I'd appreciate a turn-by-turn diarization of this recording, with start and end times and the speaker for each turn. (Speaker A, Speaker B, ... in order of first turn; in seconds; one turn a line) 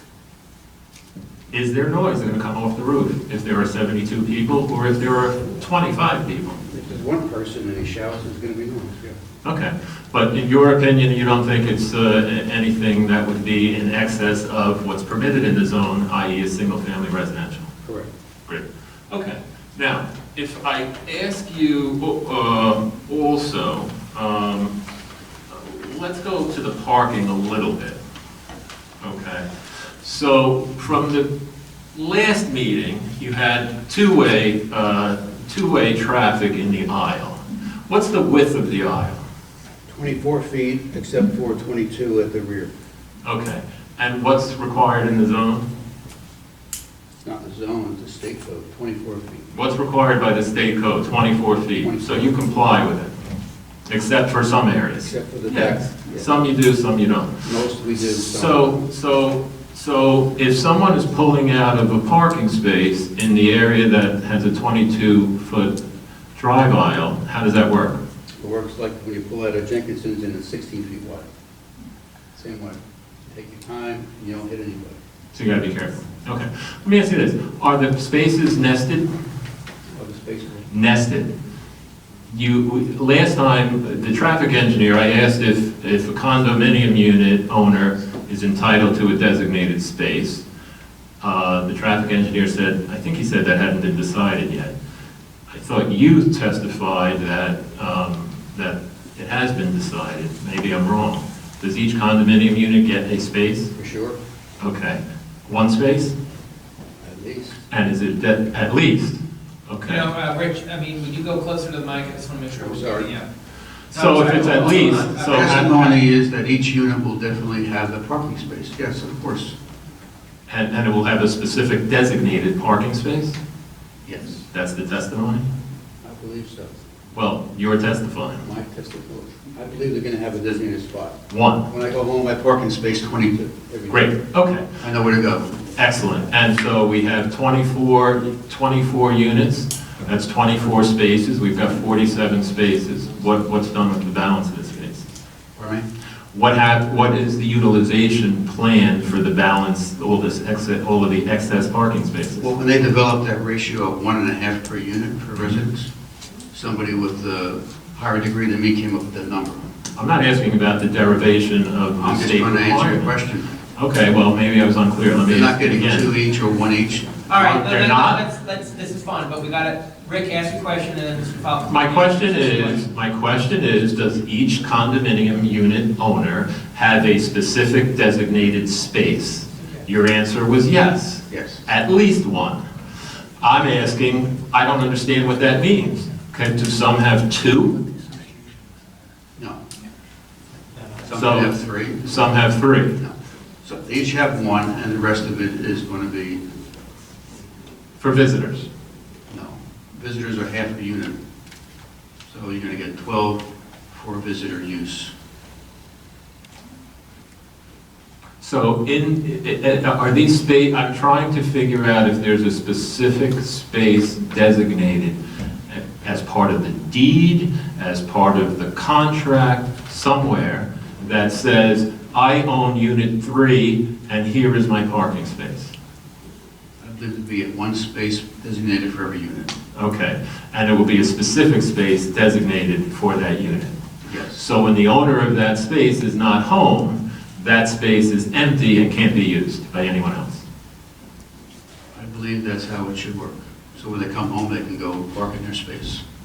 Speaker A: 1.5-6.6
Speaker B: 6.7-9.2
Speaker A: 9.4-17.7
Speaker B: 17.8-18.1
Speaker A: 18.5-24.7
Speaker A: 25.5-28.0
Speaker A: 29.0-29.5
Speaker A: 30.0-31.3
Speaker A: 31.9-39.2
Speaker B: 39.9-42.7
Speaker A: 43.2-45.7
Speaker B: 47.2-49.5
Speaker A: 49.5-53.1
Speaker B: 51.8-52.4
Speaker A: 53.9-57.4
Speaker B: 55.0-56.3
Speaker B: 57.4-58.8
Speaker A: 58.1-65.8
Speaker A: 66.3-68.0
Speaker B: 68.4-71.3
Speaker B: 72.3-75.0
Speaker A: 75.3-79.1
Speaker B: 79.9-80.7
Speaker A: 80.7-81.3
Speaker A: 82.3-90.4
Speaker A: 91.2-94.7
Speaker A: 95.5-103.7
Speaker B: 103.8-104.2
Speaker A: 104.6-106.2
Speaker B: 107.0-107.6
Speaker A: 107.7-110.1
Speaker C: 109.8-113.3
Speaker B: 112.6-113.1
Speaker C: 113.9-115.9
Speaker A: 113.9-115.9
Speaker B: 115.3-119.6
Speaker A: 120.5-123.4
Speaker B: 124.0-124.4
Speaker A: 124.5-125.5
Speaker B: 126.0-126.8
Speaker A: 127.1-128.4
Speaker B: 128.4-134.2
Speaker A: 131.3-131.7
Speaker A: 133.9-134.7
Speaker B: 134.8-135.6
Speaker A: 135.8-145.1
Speaker B: 145.6-145.9
Speaker A: 146.3-152.5
Speaker B: 152.4-155.9
Speaker B: 156.5-159.7
Speaker A: 159.9-163.2
Speaker B: 162.0-163.5
Speaker A: 163.8-166.1
Speaker B: 165.3-167.2
Speaker C: 167.3-172.9
Speaker A: 167.3-168.2
Speaker A: 171.7-182.6
Speaker B: 181.3-181.6
Speaker A: 183.4-187.8
Speaker B: 191.0-192.3
Speaker A: 191.1-193.0
Speaker B: 193.0-196.4
Speaker A: 198.0-198.7
Speaker B: 199.3-201.2
Speaker B: 202.3-205.1
Speaker A: 208.4-215.2
Speaker A: 215.7-225.7
Speaker B: 226.8-229.5
Speaker A: 229.8-233.8
Speaker B: 234.0-234.4
Speaker A: 234.3-240.4
Speaker B: 241.9-246.0